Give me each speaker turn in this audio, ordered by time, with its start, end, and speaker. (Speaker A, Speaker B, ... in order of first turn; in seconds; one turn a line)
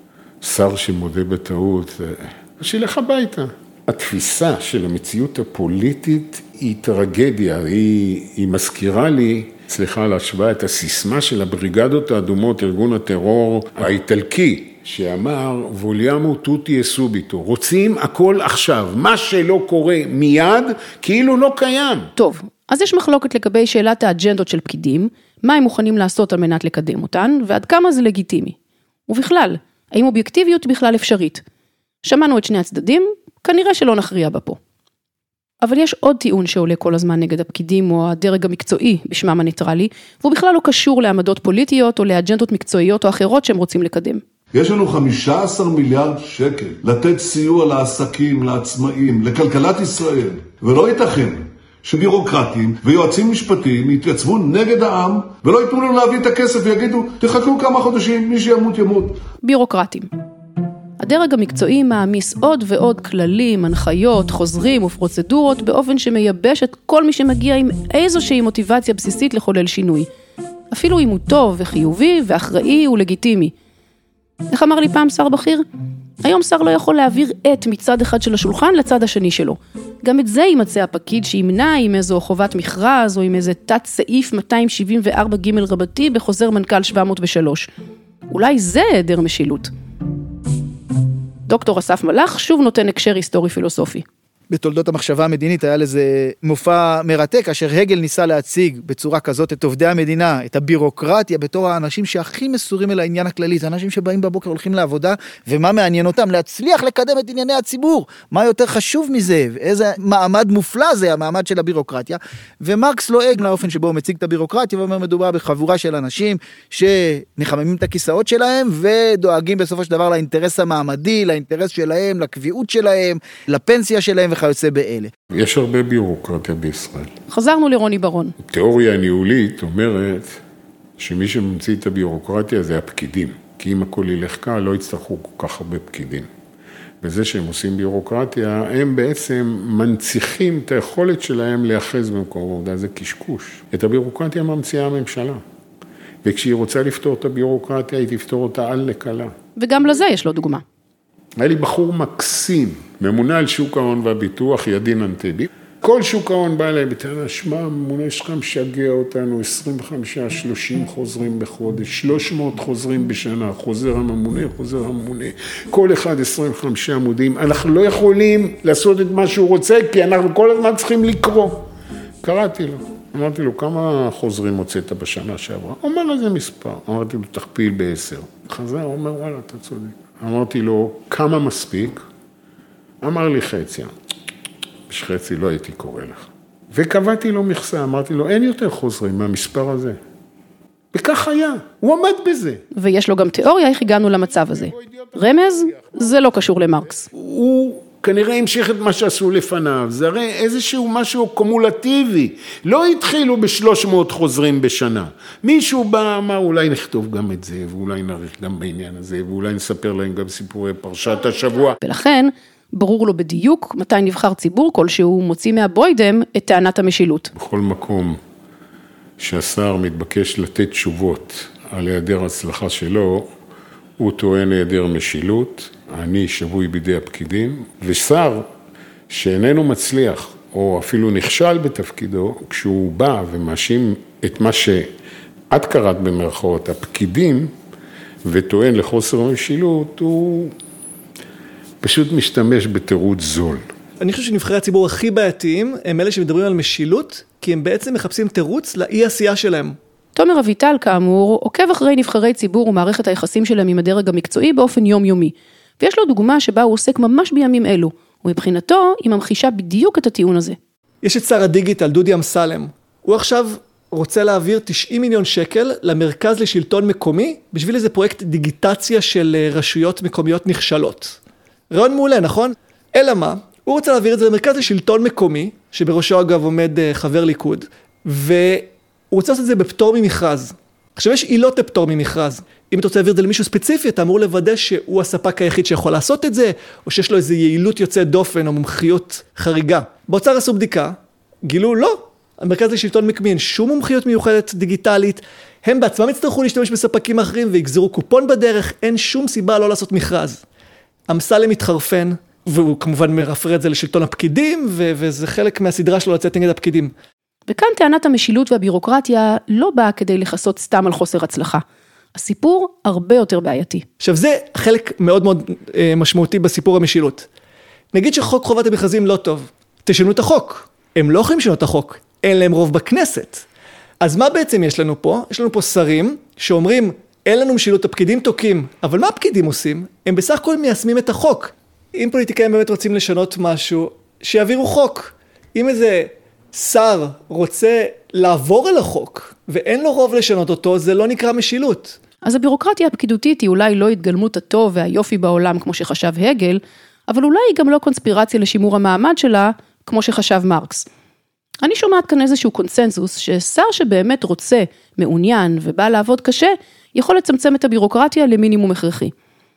Speaker A: 0.4-22.1
Speaker B: 22.2-28.6
Speaker B: 29.1-31.4
Speaker B: 32.0-34.6
Speaker B: 35.6-44.2
Speaker C: 44.5-59.2
Speaker B: 59.4-60.1
Speaker B: 61.0-70.1
Speaker B: 70.7-73.5
Speaker B: 74.5-75.6
Speaker B: 76.2-87.7
Speaker B: 88.3-89.7
Speaker B: 91.5-94.0
Speaker D: 94.5-125.1
Speaker A: 125.3-127.1
Speaker B: 127.3-128.3
Speaker A: 128.4-130.3
Speaker A: 131.0-136.3
Speaker A: 137.0-145.4
Speaker A: 146.2-149.3
Speaker B: 149.6-150.6
Speaker A: 151.4-171.7
Speaker A: 172.2-182.0
Speaker A: 183.0-183.9
Speaker A: 184.9-190.0
Speaker A: 190.9-192.6
Speaker B: 192.7-197.1
Speaker A: 194.3-196.2
Speaker A: 197.1-211.8
Speaker B: 211.8-217.3
Speaker A: 217.3-218.2
Speaker A: 219.2-223.3
Speaker A: 224.0-228.5
Speaker A: 229.1-234.9
Speaker A: 235.5-237.5
Speaker A: 238.2-240.5
Speaker A: 241.8-243.6
Speaker E: 244.0-249.8
Speaker B: 250.1-260.6
Speaker E: 261.0-271.2
Speaker E: 271.7-300.4
Speaker E: 301.1-306.9
Speaker B: 307.5-311.6
Speaker B: 312.1-313.9
Speaker E: 314.0-317.3
Speaker E: 317.9-323.4
Speaker E: 324.0-342.0
Speaker B: 342.2-350.9
Speaker B: 351.6-359.1